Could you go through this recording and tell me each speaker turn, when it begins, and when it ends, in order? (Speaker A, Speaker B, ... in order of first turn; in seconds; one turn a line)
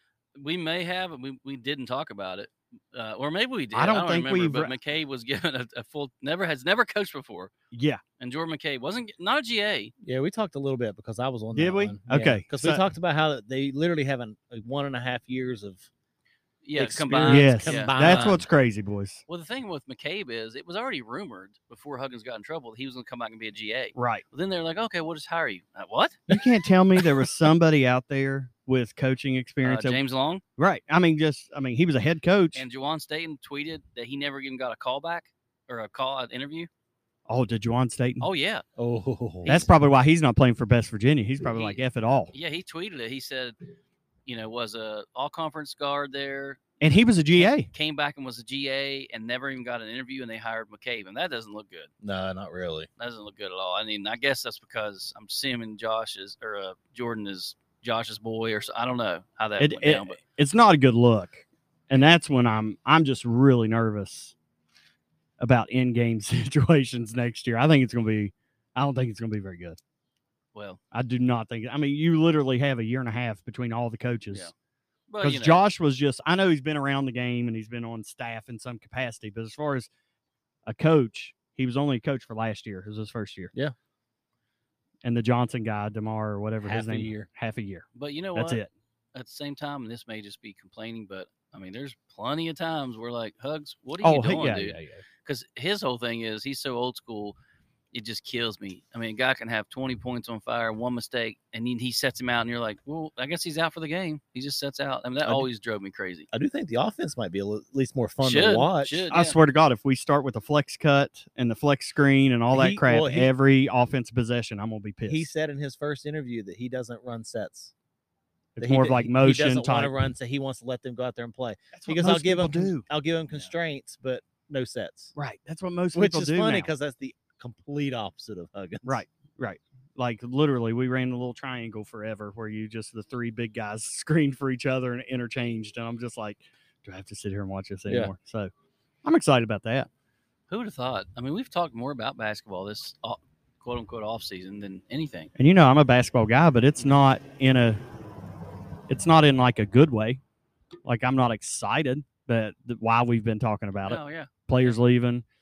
Speaker A: 0.4-7.5
Speaker B: 3.7-4.7
Speaker B: 7.7-8.0
Speaker A: 8.2-9.9
Speaker C: 10.0-15.9
Speaker B: 11.5-12.8
Speaker A: 16.6-18.4
Speaker C: 16.8-18.5
Speaker B: 17.3-19.2
Speaker A: 19.3-26.2
Speaker B: 23.9-24.2
Speaker B: 26.3-30.0
Speaker A: 29.6-30.4
Speaker B: 30.6-32.6
Speaker A: 32.5-36.7
Speaker B: 37.3-38.3
Speaker A: 38.2-38.6
Speaker C: 38.8-39.6
Speaker B: 39.5-42.3
Speaker A: 41.5-41.8
Speaker A: 42.3-43.6
Speaker A: 44.3-46.6
Speaker B: 46.8-47.7
Speaker A: 47.4-51.9
Speaker C: 52.0-52.9
Speaker A: 53.0-60.2
Speaker B: 59.6-64.3
Speaker B: 65.4-69.8
Speaker A: 70.5-70.8
Speaker B: 70.9-74.5
Speaker A: 75.1-75.6
Speaker B: 75.2-79.9
Speaker B: 80.7-83.5
Speaker B: 85.0-88.7
Speaker C: 86.6-87.3
Speaker A: 88.0-88.6
Speaker A: 89.1-97.4
Speaker B: 94.0-94.8
Speaker A: 97.9-106.3
Speaker C: 106.3-109.0
Speaker A: 108.2-109.4
Speaker B: 109.1-115.3
Speaker C: 112.5-113.3
Speaker C: 115.1-117.7
Speaker B: 118.6-120.1
Speaker C: 118.6-125.1
Speaker B: 121.7-122.9
Speaker B: 125.2-126.7
Speaker C: 125.9-129.0
Speaker B: 128.8-138.5
Speaker C: 137.9-138.1
Speaker B: 139.0-139.9
Speaker A: 140.5-145.3
Speaker B: 145.4-147.8
Speaker B: 148.9-150.2
Speaker B: 150.8-155.2
Speaker A: 153.8-154.8